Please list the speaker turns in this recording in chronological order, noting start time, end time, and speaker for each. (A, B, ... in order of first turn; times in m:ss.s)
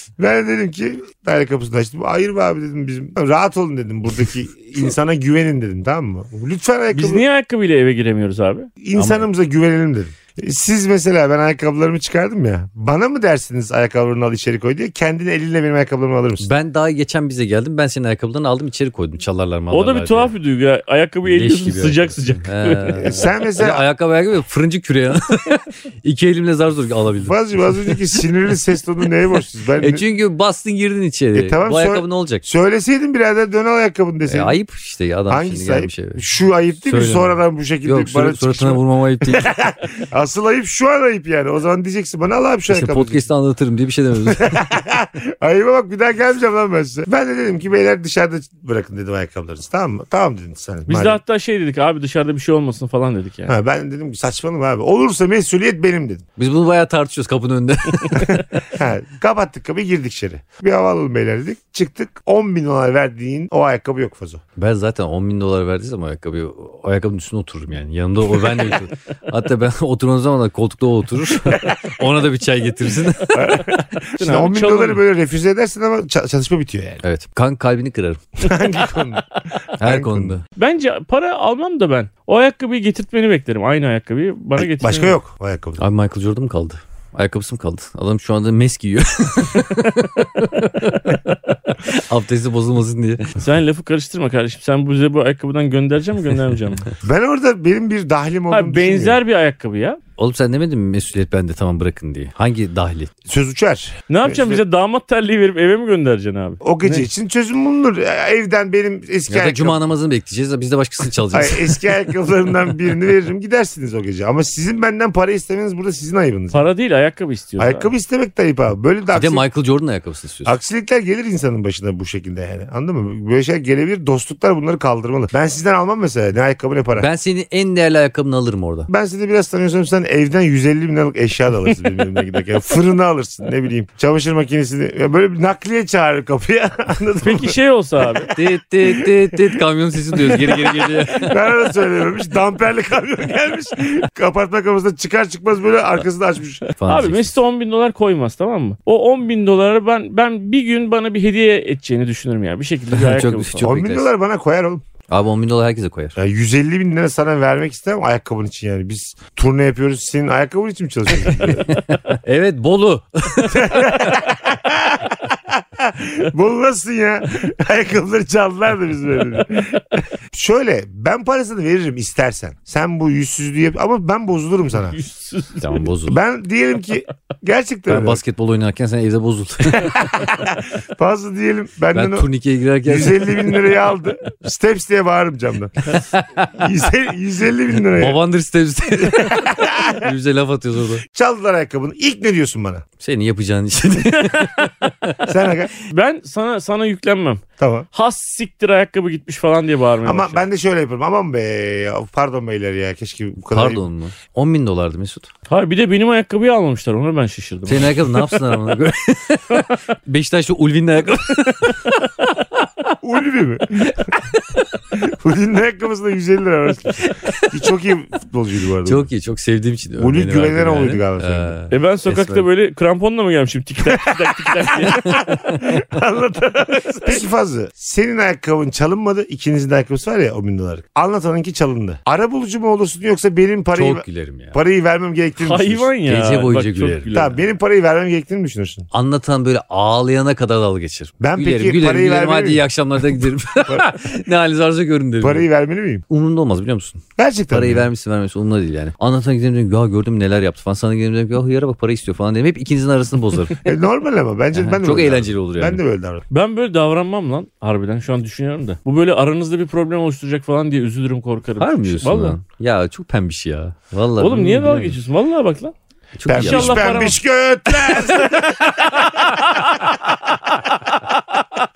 0:00.2-0:07.2 A
0:06.9-0:08.7 B
0:08.8-0:16.5 A
0:08.9-0:09.3 C
0:16.4-0:20.3 C
0:19.7-0:23.2 B
0:21.2-0:28.0 C
0:23.0-0:23.8 A
0:27.2-0:30.0 A
0:29.8-0:32.4 C
0:31.3-0:34.6 A
0:34.2-0:36.2 C
0:35.3-0:43.2 A
0:36.8-0:39.5 C
0:42.7-0:44.6 C
0:44.2-0:51.2 A
0:50.9-0:53.5 B
0:53.4-0:56.2 A
0:56.4-0:58.5 C
0:58.7-1:04.4 A
1:04.6-1:13.4 C
1:13.3-1:17.0 A
1:14.2-1:15.0 B
1:17.0-1:18.2 C
1:18.4-1:19.2 A
1:19.8-1:20.4 C
1:19.8-1:20.3 A
1:20.6-1:25.2 B
1:24.6-1:25.8 A
1:25.8-1:33.4 C
1:33.4-1:36.8 B
1:37.0-1:39.2 A
1:38.5-1:40.0 B
1:40.2-1:43.1 C
1:43.2-1:44.6 A
1:44.1-1:47.0 B
1:46.6-1:49.8 A
1:49.3-1:51.8 C
1:51.2-1:56.7 A
1:56.5-1:57.9 B
1:57.6-1:59.4 A
1:59.1-2:00.5 C
2:00.4-2:07.1 A
2:07.0-2:08.9 C
2:08.9-2:18.3 A
2:17.2-2:18.3 B
2:18.3-2:21.3 C
2:18.8-2:19.6 A
2:20.1-2:26.6 A
2:26.8-2:27.4 C
2:26.8-2:33.7 B
2:32.9-2:34.1 C
2:33.6-2:34.8 A
2:35.1-2:36.2 C
2:36.2-2:41.8 A
2:41.4-2:44.3 C
2:43.5-2:55.0 A
2:54.9-2:55.8 B
2:55.6-2:56.2 C
2:56.1-2:58.2 A
2:57.9-3:00.0 C
2:59.6-3:02.3 A
3:01.9-3:03.7 C
3:02.8-3:05.9 A
3:05.9-3:06.3 C
3:06.5-3:08.2 A
3:07.9-3:11.0 C
3:09.0-3:10.1 A
3:11.1-3:12.8 A
3:13.0-3:15.3 C
3:14.2-3:14.6 B
3:15.2-3:15.7 A
3:15.9-3:20.4 B
3:17.6-3:17.9 A
3:20.0-3:23.8 A
3:23.5-3:25.3 C
3:25.5-3:28.4 B
3:27.7-3:32.0 C
3:33.0-3:34.2 A
3:34.9-3:39.1 A
3:37.0-3:37.5 C
3:38.8-3:42.4 C
3:40.0-3:41.5 A
3:41.7-3:45.2 B
3:43.9-3:55.9 A
3:44.8-3:45.6 C
3:53.7-3:54.6 C
3:55.4-3:57.4 B
3:56.0-3:57.1 C
3:57.1-3:58.9 A
3:58.9-4:05.5 C
4:01.2-4:04.0 A
4:05.2-4:06.0 A
4:06.1-4:13.7 C
4:07.2-4:07.9 A
4:13.6-4:16.2 A
4:14.5-4:15.8 C
4:16.3-4:22.4 B
4:21.6-4:25.0 C
4:24.2-4:25.7 B
4:26.2-4:27.1 C
4:26.2-4:29.7 A
4:26.3-4:27.2 B
4:30.6-4:30.9 A